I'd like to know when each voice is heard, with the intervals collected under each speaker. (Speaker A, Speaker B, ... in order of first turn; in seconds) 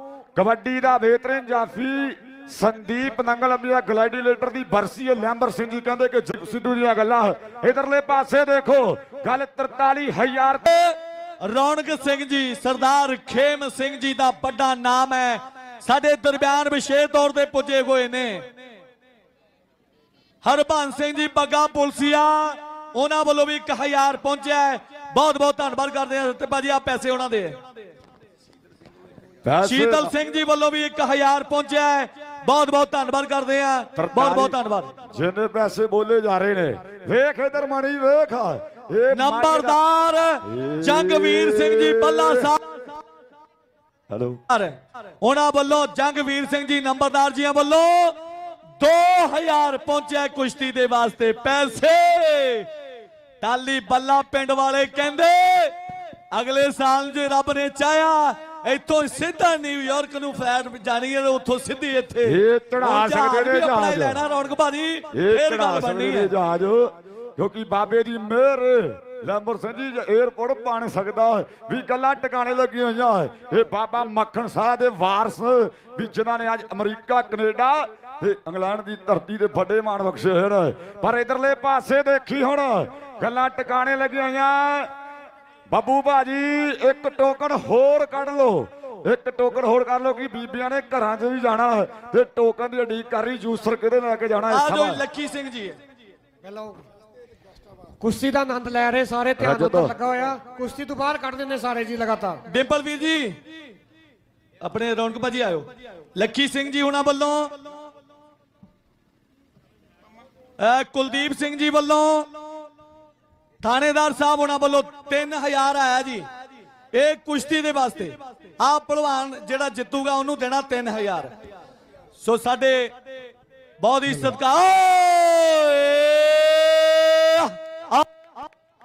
Speaker A: 0.3-10.9, 29.4-30.1, 34.0-34.5, 35.1-39.8, 40.4-42.5, 44.1-44.4, 62.2-64.2, 65.1-84.9, 85.7-95.0, 99.4-100.0, 124.1-124.3
Speaker B: 11.4-18.4, 20.4-27.6, 29.6-34.9, 39.1-42.9, 44.5-48.2, 48.8-52.7, 53.4-55.8, 56.3-66.3, 94.5-95.8, 102.5-103.4, 104.6-107.7, 110.6-112.3, 113.6-116.3, 116.9-121.3, 122.2-123.0, 123.8-128.1
Speaker C: 96.4-96.8, 98.0-102.4